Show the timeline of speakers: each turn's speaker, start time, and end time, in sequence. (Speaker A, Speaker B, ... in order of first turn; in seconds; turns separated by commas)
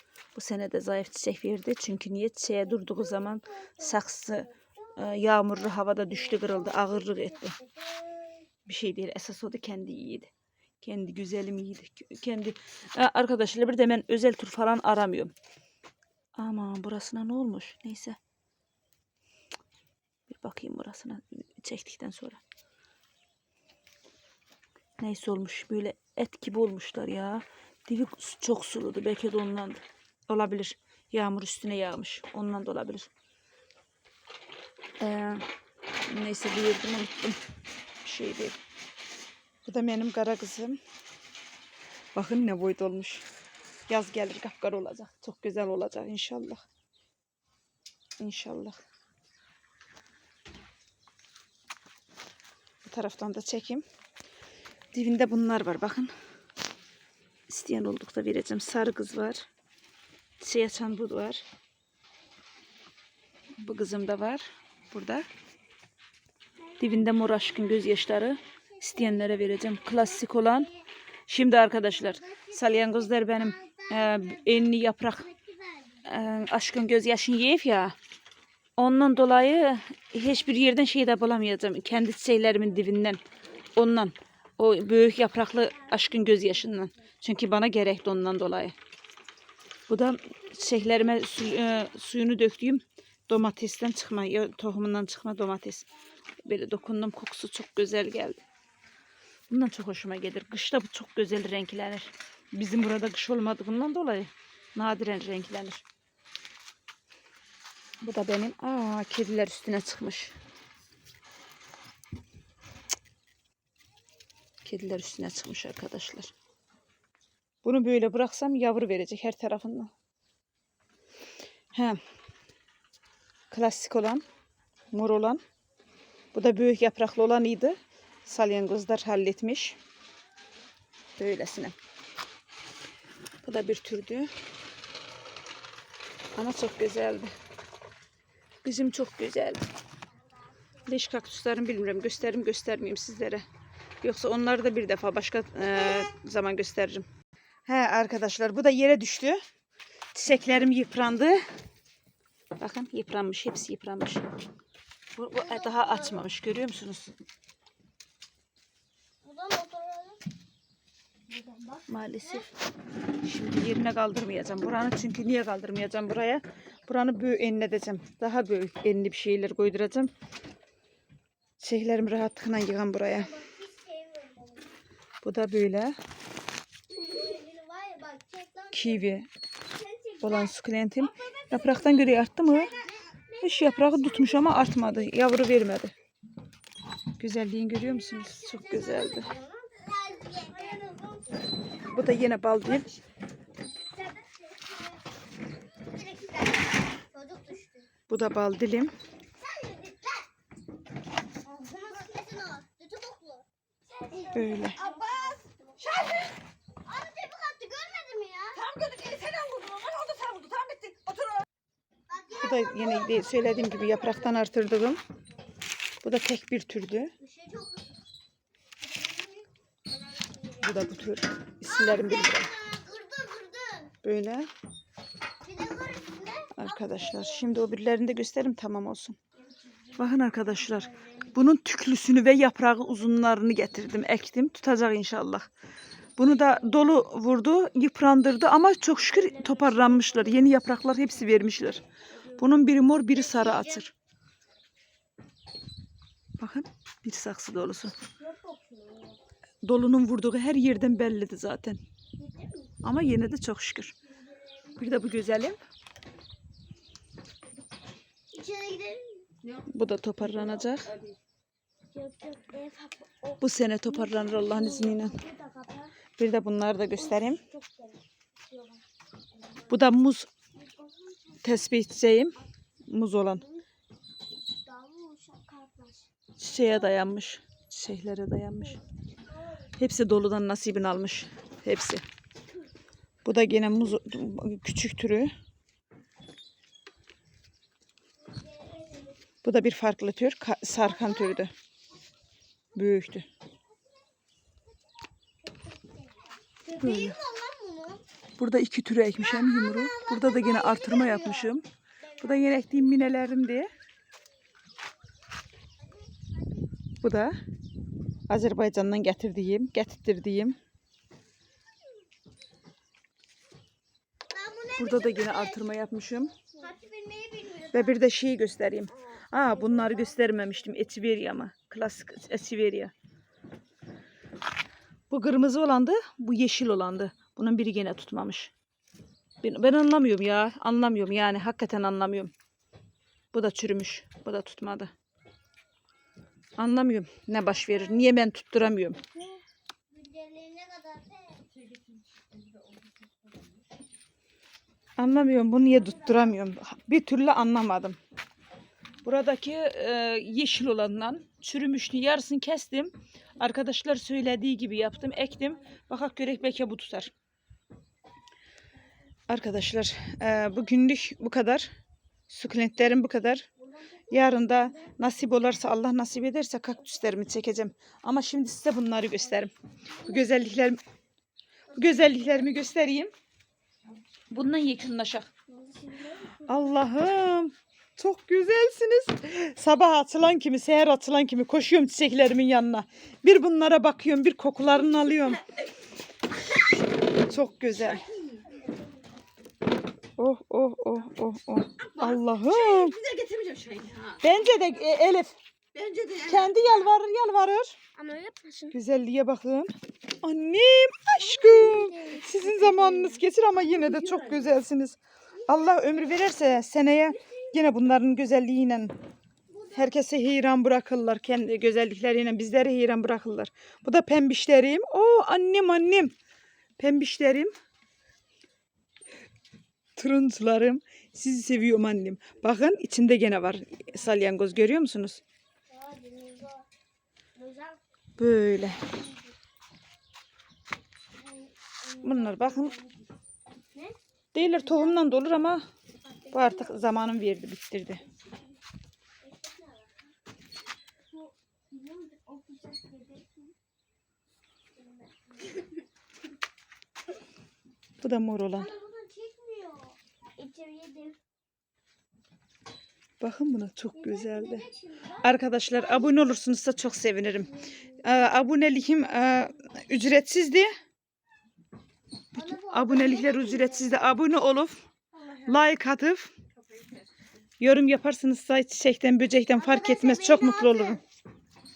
Speaker A: 0.3-7.6, Speaker B: 7.6-8.4, Speaker A: 8.7-15.3, Speaker A: 16.4-18.2, Speaker A: 20.3-22.4, Speaker A: 25.0-33.1, Speaker A: 35.0-35.5, Speaker A: 36.1-37.4, Speaker A: 38.0-38.6, Speaker A: 39.7-40.8, Speaker A: 42.1-43.3, Speaker A: 43.9-46.6, Speaker A: 48.2-48.8, Speaker A: 52.9-53.9, Speaker A: 54.9-56.1, Speaker A: 57.5-59.5, Speaker A: 60.4-61.4, Speaker A: 63.6-65.3, Speaker A: 66.8-75.3, Speaker B: 72.2-74.4, Speaker B: 75.3-76.1, Speaker A: 76.0-78.0, Speaker A: 78.8-83.2, Speaker A: 83.7-88.8, Speaker A: 89.9-95.9, Speaker A: 96.4-98.4, Speaker A: 99.5-105.8, Speaker A: 108.0-110.4, Speaker A: 114.6-116.3, Speaker A: 117.6-119.9, Speaker A: 121.7-122.0, Speaker A: 123.5-124.2, Speaker A: 124.9-125.4, Speaker A: 126.3-129.8, Speaker A: 131.2-131.8, Speaker A: 133.4-134.3, Speaker A: 136.3-137.3, Speaker A: 138.6-139.7, Speaker A: 140.8-143.4, Speaker A: 144.0-147.1, Speaker A: 147.7-149.4, Speaker A: 150.1-151.4, Speaker A: 152.6-154.2, Speaker A: 155.2-157.1, Speaker B: 155.4-156.1, Speaker B: 159.2-160.3, Speaker B: 161.3-161.8, Speaker A: 161.9-162.5, Speaker A: 163.2-170.1, Speaker A: 171.6-173.4, Speaker B: 173.1-174.7, Speaker A: 175.2-176.0, Speaker B: 176.9-179.1, Speaker A: 178.7-179.3, Speaker B: 179.7-180.4, Speaker A: 180.2-182.8, Speaker B: 182.7-184.6, Speaker A: 183.4-185.9, Speaker A: 187.2-189.3, Speaker B: 188.1-191.6, Speaker A: 191.9-192.9, Speaker B: 193.9-195.1, Speaker B: 195.7-197.9, Speaker A: 198.1-198.9, Speaker B: 199.4-200.3, Speaker B: 201.4-206.2, Speaker A: 204.3-204.8, Speaker B: 206.8-208.7, Speaker A: 208.8-211.2, Speaker C: 209.9-211.0, Speaker B: 212.1-214.4, Speaker A: 212.4-215.0, Speaker A: 216.0-217.2, Speaker B: 217.2-217.9, Speaker B: 218.8-220.9, Speaker A: 220.6-222.5, Speaker B: 221.7-223.9, Speaker A: 224.0-224.5, Speaker B: 225.4-227.5, Speaker A: 226.5-229.2, Speaker B: 229.6-230.0, Speaker A: 230.0-235.5, Speaker B: 230.8-231.3, Speaker A: 236.2-243.9, Speaker B: 243.1-243.8, Speaker A: 246.4-248.0, Speaker B: 248.2-249.2, Speaker A: 249.6-251.8, Speaker B: 252.2-252.9, Speaker A: 252.8-253.9, Speaker A: 254.8-255.6, Speaker B: 258.3-259.3, Speaker A: 259.5-261.0, Speaker B: 261.9-266.0, Speaker A: 263.4-265.2, Speaker A: 266.2-267.4, Speaker B: 267.2-268.8, Speaker A: 269.7-270.3, Speaker B: 270.6-271.5, Speaker A: 271.4-273.5, Speaker B: 274.6-276.1, Speaker A: 276.4-278.8, Speaker A: 279.8-282.0, Speaker A: 283.2-285.3, Speaker B: 288.3-289.1, Speaker A: 289.4-291.5, Speaker A: 292.7-293.3, Speaker B: 295.4-298.0, Speaker A: 296.8-297.2, Speaker A: 298.4-301.7, Speaker B: 299.2-301.6, Speaker B: 302.1-302.6, Speaker A: 302.2-303.7, Speaker A: 307.0-307.4, Speaker A: 308.3-310.6, Speaker B: 314.3-315.6, Speaker A: 314.8-316.4, Speaker B: 316.5-318.0, Speaker A: 317.7-322.9, Speaker A: 325.1-328.5, Speaker A: 329.4-332.3, Speaker A: 333.3-334.9, Speaker A: 336.6-339.0, Speaker B: 339.0-341.5, Speaker A: 345.0-348.0, Speaker A: 349.0-357.1, Speaker A: 359.3-361.7, Speaker A: 362.3-363.5, Speaker A: 364.1-370.8, Speaker A: 371.7-373.1, Speaker A: 374.3-375.3, Speaker B: 375.5-376.6, Speaker A: 376.4-385.5, Speaker A: 387.2-388.1, Speaker A: 390.2-393.1, Speaker C: 393.1-394.1, Speaker A: 394.1-395.4, Speaker A: 396.0-397.8, Speaker B: 397.9-398.7, Speaker A: 398.7-399.7, Speaker A: 400.2-409.0, Speaker B: 401.2-403.0, Speaker B: 409.5-409.9, Speaker A: 409.7-416.1, Speaker A: 416.8-417.5, Speaker A: 420.0-425.2, Speaker B: 425.7-426.7, Speaker B: 427.4-427.8, Speaker A: 428.2-428.9, Speaker B: 431.2-432.9, Speaker A: 432.0-432.8, Speaker B: 433.7-435.1, Speaker A: 434.3-435.6, Speaker B: 436.1-436.9, Speaker A: 436.3-438.0, Speaker B: 439.2-440.1, Speaker B: 441.1-443.5, Speaker B: 444.8-445.7, Speaker A: 448.0-448.7, Speaker B: 448.6-451.2, Speaker A: 453.2-460.7, Speaker B: 453.9-455.3, Speaker B: 462.3-464.1, Speaker A: 462.4-464.8, Speaker B: 465.1-465.6, Speaker A: 465.4-466.3, Speaker A: 467.6-471.0, Speaker B: 469.6-471.0